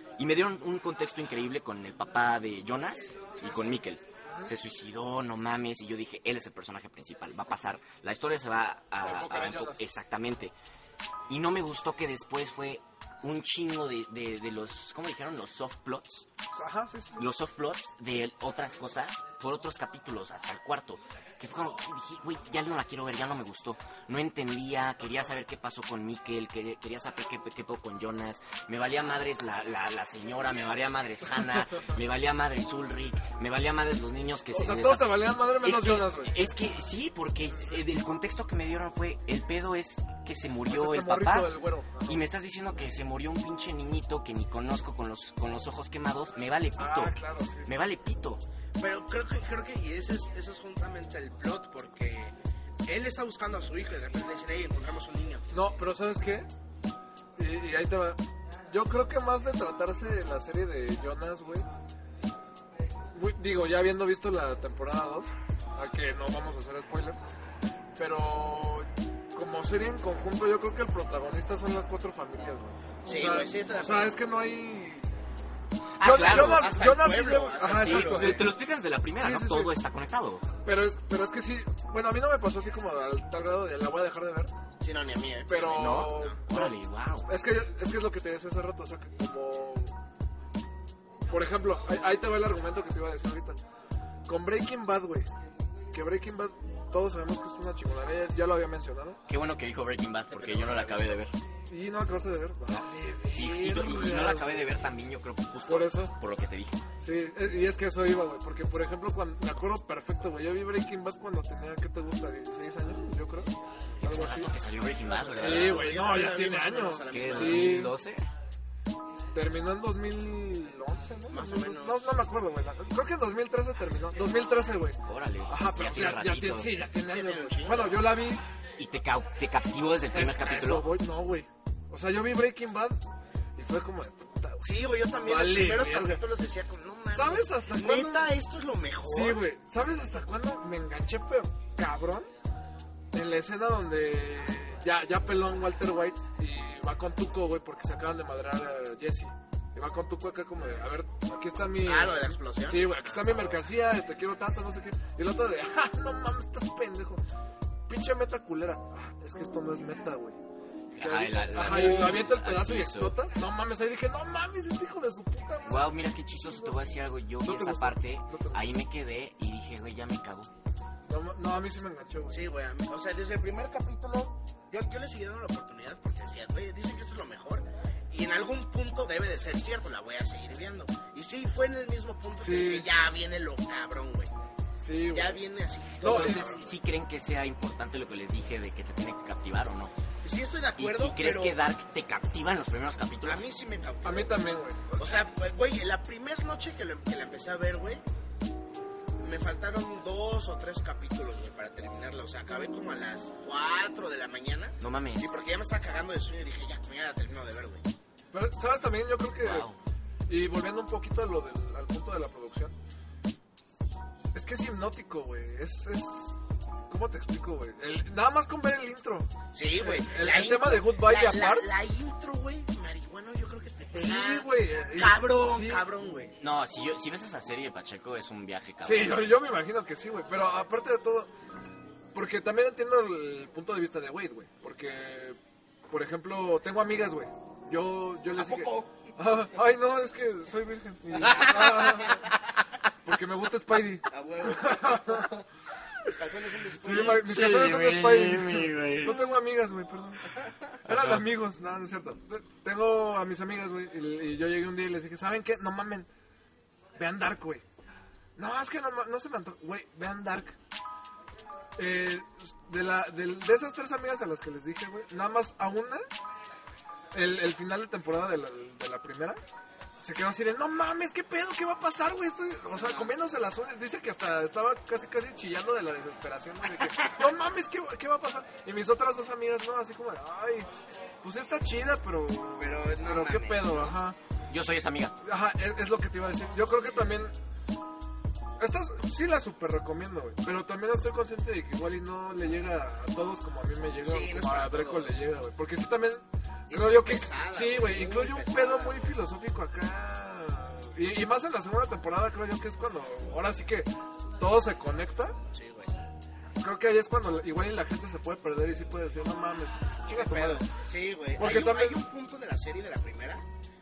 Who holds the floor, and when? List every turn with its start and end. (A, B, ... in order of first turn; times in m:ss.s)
0:00.2-0:10.5 A
0:03.4-0:03.7 B
0:09.0-0:09.9 B
0:11.3-0:16.2 A
0:16.5-0:17.3 B
0:17.2-0:48.4 A
0:34.5-0:36.5 B
0:37.4-0:37.8 B
0:40.7-0:42.2 B
0:46.8-0:47.8 B
0:48.8-0:52.3 C
0:52.8-0:55.4 C
0:55.5-0:56.5 B
0:57.4-1:01.7 B
1:03.1-1:07.2 B
1:08.0-1:15.0 B
1:13.0-1:14.2 C
1:16.0-1:16.8 A
1:16.0-1:18.6 B
1:16.1-1:18.4 C
1:17.8-1:20.5 A
1:19.2-1:19.7 B
1:20.6-1:24.5 B
1:24.8-1:26.4 C
1:25.5-1:29.9 B
1:25.7-1:27.3 A
1:31.3-1:33.6 B
1:34.2-1:35.3 B
1:35.9-1:39.2 B
1:39.3-1:41.3 A
1:40.4-1:41.1 B
1:41.7-1:44.7 B
1:42.7-1:46.8 A
1:45.7-1:46.1 B
1:47.0-1:54.5 B
1:54.0-1:56.4 A
1:55.1-1:57.9 C
1:55.3-1:57.9 B
1:57.0-1:58.3 A
1:59.3-2:08.4 B
2:01.3-2:02.2 C
2:05.0-2:06.7 A
2:07.0-2:08.1 C
2:08.8-2:10.9 A
2:10.1-2:13.0 B
2:13.6-2:16.2 B
2:14.6-2:19.4 C
2:17.0-2:18.3 B
2:19.0-2:22.3 B
2:23.1-2:37.2 B
2:31.8-2:33.6 C
2:37.9-2:40.4 B
2:40.9-2:43.1 A
2:41.0-2:46.8 B
2:41.6-2:42.2 C
2:45.6-2:50.5 A
2:47.4-2:48.6 B
2:51.1-2:52.4 B
2:52.3-3:04.3 C
3:02.4-3:02.9 B
3:04.8-3:05.4 B
3:05.1-3:06.8 C
3:06.0-3:06.6 B
3:06.0-3:09.9 A
3:10.2-3:11.6 C
3:10.8-3:13.4 A
3:13.2-3:14.4 C
3:14.0-3:15.1 B
3:14.9-3:18.0 C
3:19.2-3:27.8 C
3:24.8-3:25.3 A
3:28.3-3:29.7 B
3:29.4-3:29.8 A
3:30.3-3:32.7 B
3:34.3-3:41.7 B
3:39.5-3:46.3 C
3:43.9-3:45.8 B
3:46.4-3:49.3 A
3:48.8-3:51.3 B
3:52.1-3:55.4 B
3:55.9-4:02.2 B
3:58.3-3:59.1 C
4:01.3-4:01.7 A
4:01.3-4:02.2 C
4:03.0-4:05.3 B
4:04.1-4:05.4 C
4:06.0-4:07.3 C
4:06.8-4:10.2 B
4:07.0-4:09.1 A
4:10.3-4:10.7 C
4:10.8-4:16.1 B
4:10.8-4:11.2 A
4:17.0-4:17.6 B
4:18.4-4:20.6 B
4:21.8-4:26.0 B
4:27.1-4:29.4 B
4:30.0-4:40.7 B
4:32.8-4:33.1 C
4:41.2-4:44.2 B
4:42.6-4:44.0 C
4:44.5-4:45.2 A
4:45.2-4:47.3 B
4:48.6-5:05.4 B
4:54.0-4:55.2 C
4:56.7-4:59.2 C
5:05.5-5:05.9 C
5:06.6-5:10.7 B
5:10.1-5:13.4 C
5:11.4-5:12.0 B